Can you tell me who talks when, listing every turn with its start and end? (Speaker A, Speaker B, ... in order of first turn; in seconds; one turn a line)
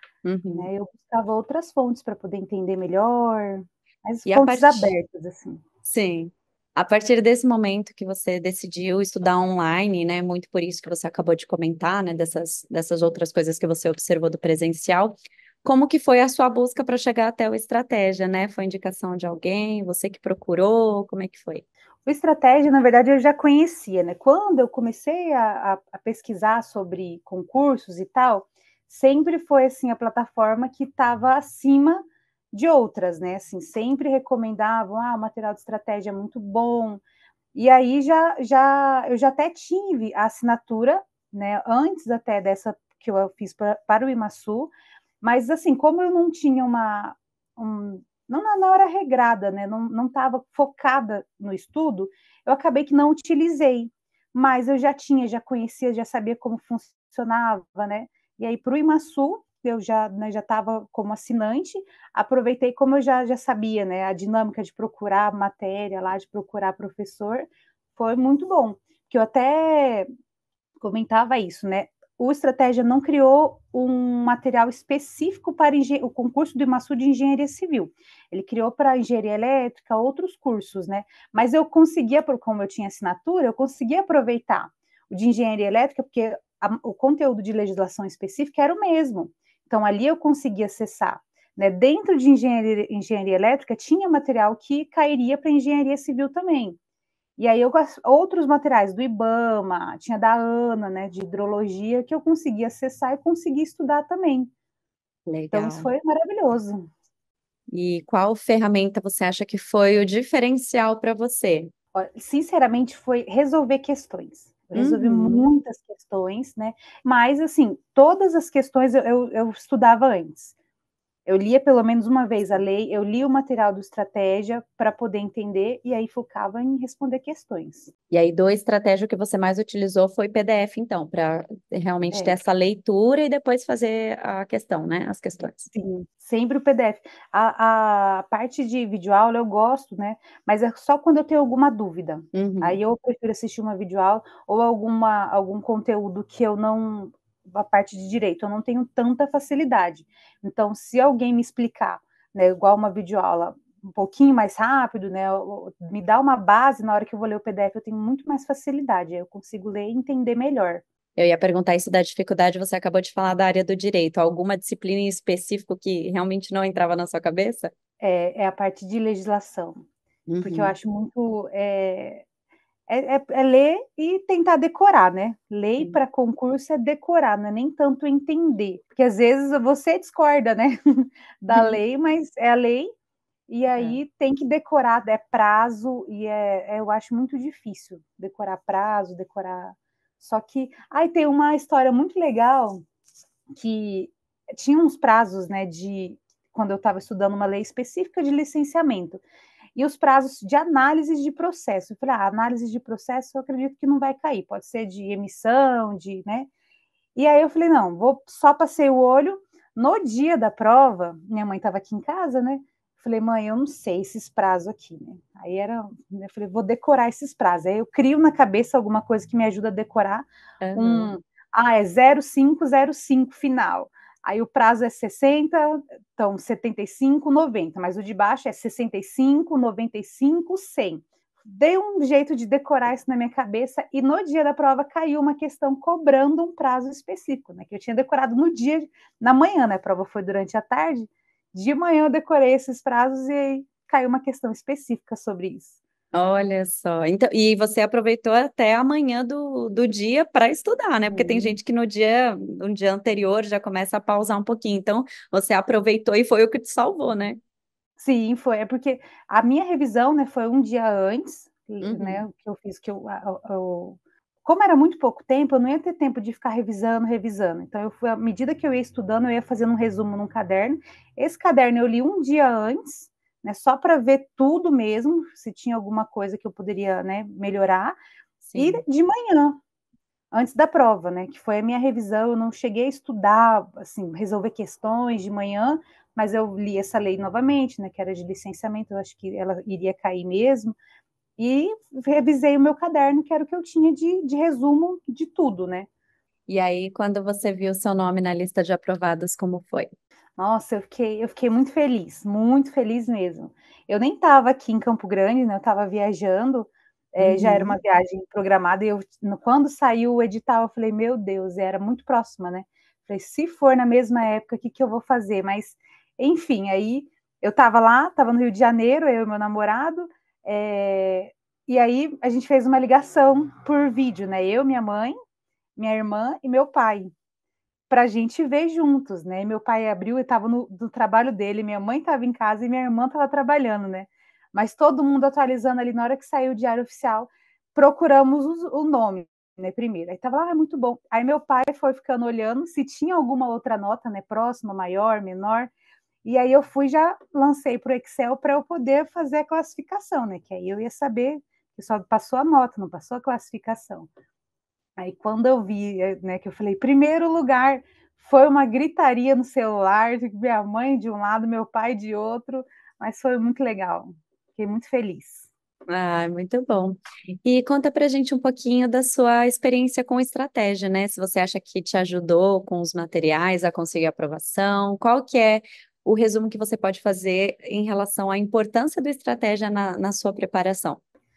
Speaker A: 0.2-0.7
Speaker B: 0.5-5.6
Speaker A: 4.2-4.9
Speaker A: 5.8-21.6
Speaker B: 22.0-37.0
Speaker B: 37.5-70.1
Speaker B: 70.8-96.8
Speaker B: 97.4-104.5
Speaker A: 105.3-105.9
Speaker B: 105.5-106.9
Speaker A: 107.7-111.7
Speaker B: 111.9-120.5
Speaker A: 114.7-115.5
Speaker B: 121.2-127.9
Speaker A: 128.1-135.7
Speaker B: 132.1-132.4
Speaker B: 135.7-160.8
Speaker A: 142.3-142.8
Speaker A: 161.2-167.7
Speaker B: 168.0-169.8
Speaker A: 170.3-170.7
Speaker B: 170.4-172.2
Speaker B: 172.9-182.9
Speaker A: 181.5-181.8
Speaker B: 183.5-192.8
Speaker A: 183.7-184.0
Speaker B: 193.5-199.2
Speaker B: 199.8-206.5
Speaker B: 207.2-245.8
Speaker A: 220.6-221.1
Speaker A: 246.1-257.4
Speaker B: 251.1-251.6
Speaker B: 258.0-278.0
Speaker A: 261.8-262.2
Speaker A: 278.4-278.8
Speaker B: 278.6-279.6
Speaker B: 280.3-290.8
Speaker B: 291.4-295.9
Speaker A: 296.5-299.9
Speaker B: 300.4-325.1
Speaker A: 307.2-307.8
Speaker B: 325.8-327.1
Speaker B: 327.9-345.7
Speaker B: 346.2-354.1
Speaker B: 355.0-365.5
Speaker A: 365.9-381.0